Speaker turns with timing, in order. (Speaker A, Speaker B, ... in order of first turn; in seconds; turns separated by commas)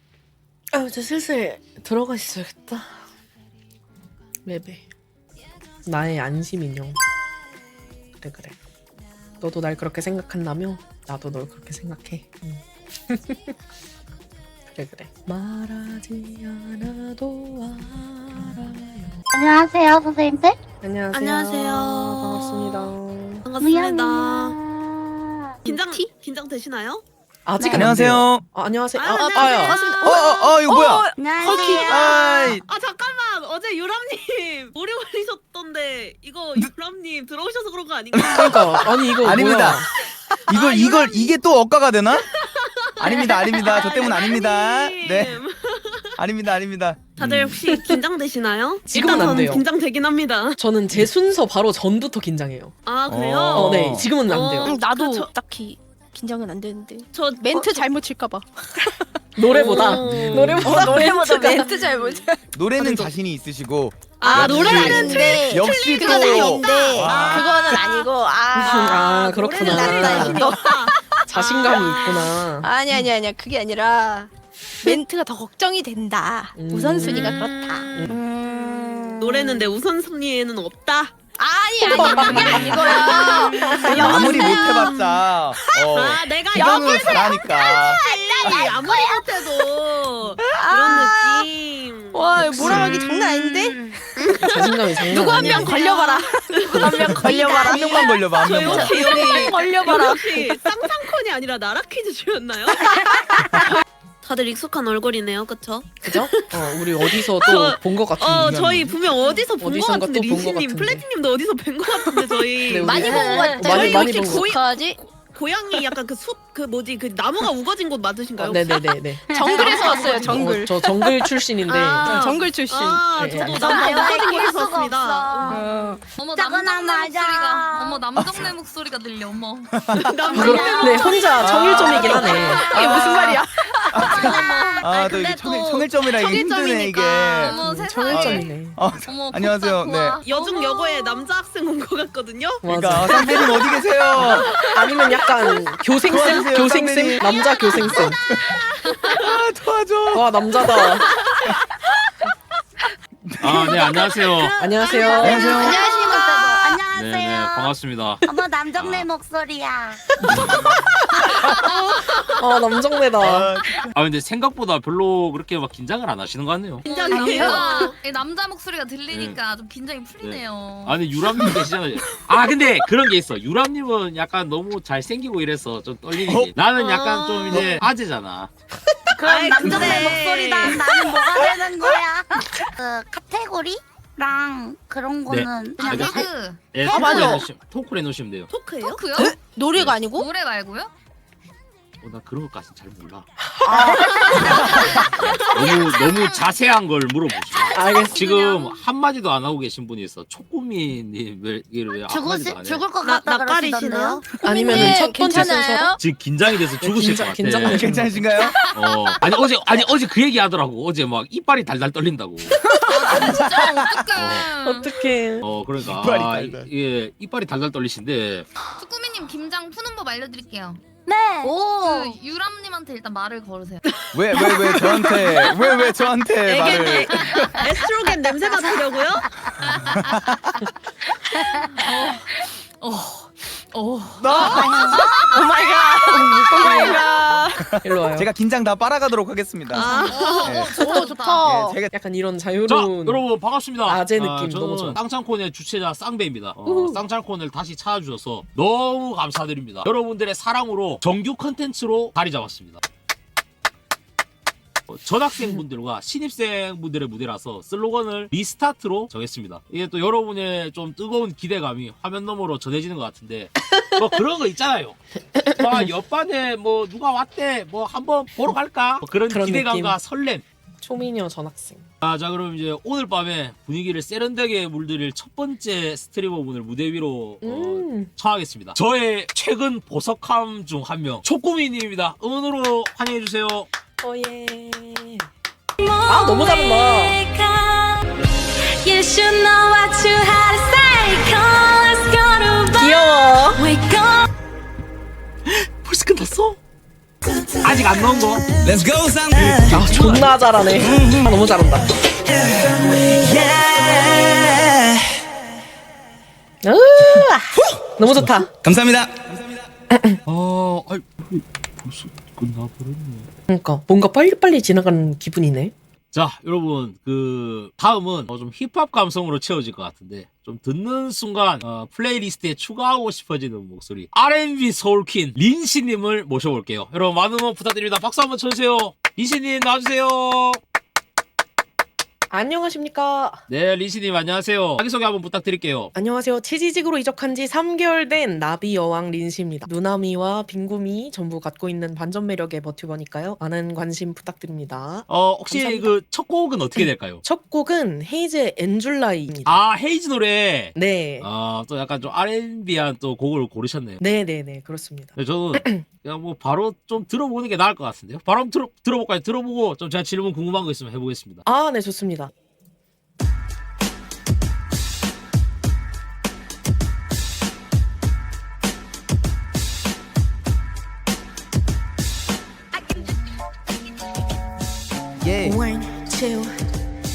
Speaker A: 0.7-2.9, Speaker A: 4.4-4.8, Speaker A: 5.8-7.0, Speaker A: 8.2-8.6, Speaker A: 9.4-13.5, Speaker A: 14.7-19.1, Speaker B: 19.3-20.6, Speaker A: 20.8-23.4, Speaker C: 21.1-22.9, Speaker C: 23.4-24.6, Speaker B: 23.6-25.3, Speaker C: 25.6-27.0, Speaker D: 25.7-26.1, Speaker A: 27.4-29.8, Speaker B: 27.6-27.9, Speaker E: 27.7-28.4, Speaker C: 28.9-30.2, Speaker D: 29.1-32.4, Speaker E: 30.0-31.0, Speaker B: 31.1-32.2, Speaker C: 31.6-39.5, Speaker E: 31.8-32.6, Speaker E: 38.1-38.6, Speaker A: 38.3-39.9, Speaker E: 39.2-39.8, Speaker C: 40.5-41.3, Speaker E: 40.5-42.3, Speaker C: 42.3-46.1, Speaker E: 43.0-45.4, Speaker E: 46.2-47.6, Speaker C: 47.2-50.5, Speaker A: 47.6-48.0, Speaker A: 48.9-49.6, Speaker A: 50.6-52.7, Speaker C: 52.9-55.3, Speaker E: 53.1-54.1, Speaker A: 53.5-54.8, Speaker D: 54.6-58.9, Speaker C: 57.1-57.8, Speaker A: 59.4-61.7, Speaker C: 59.5-61.2, Speaker D: 59.5-63.1, Speaker E: 60.1-60.8, Speaker E: 62.5-67.8, Speaker C: 64.2-67.8, Speaker D: 64.2-74.3, Speaker A: 68.5-70.5, Speaker C: 68.6-71.9, Speaker A: 71.3-73.0, Speaker D: 74.8-79.6, Speaker A: 76.5-78.1, Speaker B: 77.1-79.5, Speaker C: 79.2-81.2, Speaker D: 81.4-84.9, Speaker C: 81.8-85.3, Speaker B: 81.9-83.7, Speaker A: 82.1-82.8, Speaker E: 83.9-88.0, Speaker D: 85.6-85.9, Speaker C: 85.9-92.9, Speaker D: 86.5-89.7, Speaker D: 90.4-91.5, Speaker D: 92.1-94.5, Speaker E: 92.6-92.9, Speaker B: 92.6-94.0, Speaker C: 94.2-103.0, Speaker A: 94.4-95.8, Speaker D: 95.0-100.9, Speaker E: 97.2-99.0, Speaker D: 102.9-103.7, Speaker C: 104.2-114.6, Speaker A: 106.0-108.9, Speaker E: 108.3-109.0, Speaker A: 109.6-111.0, Speaker D: 112.2-115.0, Speaker A: 112.7-114.6, Speaker C: 115.2-120.6, Speaker A: 118.4-122.3, Speaker D: 119.3-124.5, Speaker B: 119.4-120.0, Speaker C: 121.8-125.7, Speaker A: 123.1-123.5, Speaker B: 123.5-125.7, Speaker D: 125.4-126.0, Speaker F: 126.1-131.3, Speaker B: 126.3-128.4, Speaker C: 129.9-133.4, Speaker D: 130.3-130.6, Speaker B: 130.3-131.2, Speaker A: 130.3-132.8, Speaker E: 131.4-132.2, Speaker D: 131.7-134.1, Speaker C: 133.9-136.6, Speaker E: 133.9-137.6, Speaker B: 134.0-135.1, Speaker F: 134.2-134.6, Speaker F: 136.0-141.2, Speaker A: 137.4-138.8, Speaker E: 138.1-140.2, Speaker C: 140.2-145.7, Speaker A: 142.6-143.5, Speaker E: 142.6-144.6, Speaker A: 144.2-148.2, Speaker E: 146.0-150.4, Speaker C: 147.2-149.4, Speaker A: 150.1-151.1, Speaker C: 151.1-151.5, Speaker E: 153.4-153.8, Speaker G: 153.4-154.6, Speaker B: 154.3-157.7, Speaker A: 154.6-155.6, Speaker E: 155.2-155.8, Speaker D: 155.3-155.8, Speaker G: 156.9-158.2, Speaker B: 158.2-160.0, Speaker G: 158.8-159.1, Speaker A: 161.2-161.5, Speaker F: 161.7-161.9, Speaker A: 162.2-163.5, Speaker E: 163.2-163.6, Speaker G: 163.2-166.8, Speaker C: 166.8-167.9, Speaker F: 166.8-171.0, Speaker D: 167.2-167.6, Speaker G: 169.1-169.4, Speaker G: 170.2-178.5, Speaker E: 176.1-176.5, Speaker C: 176.7-177.8, Speaker B: 179.2-186.3, Speaker C: 179.2-180.9, Speaker D: 179.6-180.0, Speaker G: 185.3-188.5, Speaker F: 185.8-187.4, Speaker D: 186.8-187.4, Speaker C: 188.5-189.3, Speaker F: 188.9-189.4, Speaker D: 189.2-190.3, Speaker G: 189.7-190.0, Speaker F: 190.0-190.9, Speaker G: 192.0-193.3, Speaker D: 193.7-194.6, Speaker A: 193.7-194.4, Speaker G: 194.4-202.8, Speaker B: 195.6-196.4, Speaker F: 195.6-196.3, Speaker B: 197.5-198.5, Speaker A: 197.7-198.1, Speaker F: 198.2-198.7, Speaker B: 202.1-204.2, Speaker C: 203.0-204.2, Speaker D: 204.4-206.0, Speaker A: 204.4-205.9, Speaker G: 206.0-207.8, Speaker A: 206.8-208.1, Speaker E: 207.6-208.5, Speaker D: 208.3-209.2, Speaker G: 208.7-212.6, Speaker F: 212.9-214.9, Speaker E: 213.2-214.0, Speaker G: 214.1-214.5, Speaker A: 214.6-215.4, Speaker G: 215.4-218.5, Speaker E: 215.8-216.7, Speaker F: 218.8-220.8, Speaker B: 221.1-222.2, Speaker F: 221.4-223.8, Speaker E: 224.1-227.7, Speaker C: 224.5-225.2, Speaker F: 225.0-225.5, Speaker C: 226.4-229.3, Speaker F: 227.1-227.5, Speaker F: 229.7-230.0, Speaker E: 229.8-230.4, Speaker F: 231.8-232.3, Speaker F: 232.8-235.1, Speaker E: 234.2-234.7, Speaker D: 234.3-237.7, Speaker B: 234.4-235.2, Speaker A: 236.6-237.0, Speaker E: 237.6-240.8, Speaker A: 237.8-238.3, Speaker C: 239.7-240.6, Speaker F: 239.8-241.5, Speaker D: 240.0-241.8, Speaker E: 241.4-241.9, Speaker A: 241.9-243.2, Speaker G: 242.7-252.8, Speaker A: 243.9-245.0, Speaker A: 246.7-246.9, Speaker G: 254.9-270.4, Speaker A: 269.3-269.9, Speaker A: 270.8-271.8, Speaker G: 272.0-283.7, Speaker A: 277.4-278.1, Speaker A: 284.0-285.2, Speaker H: 285.8-288.1, Speaker A: 286.1-287.2, Speaker H: 288.8-292.9, Speaker A: 292.8-293.6, Speaker H: 293.6-294.2, Speaker G: 295.4-296.6, Speaker G: 297.6-298.5, Speaker E: 298.6-299.8, Speaker G: 299.3-300.3, Speaker A: 299.7-301.9, Speaker E: 302.4-302.7, Speaker H: 302.9-304.5, Speaker A: 306.6-308.5, Speaker E: 308.6-309.6, Speaker A: 309.9-310.2, Speaker G: 310.3-313.3, Speaker A: 313.5-315.7, Speaker G: 316.1-330.6, Speaker A: 332.3-333.4, Speaker G: 333.5-335.9, Speaker A: 335.9-345.9, Speaker G: 345.1-347.2, Speaker A: 346.8-349.6, Speaker G: 349.4-354.0, Speaker A: 350.7-351.3, Speaker A: 354.0-355.8, Speaker G: 355.1-361.4, Speaker A: 361.4-362.3, Speaker E: 375.2-375.6, Speaker H: 375.4-376.6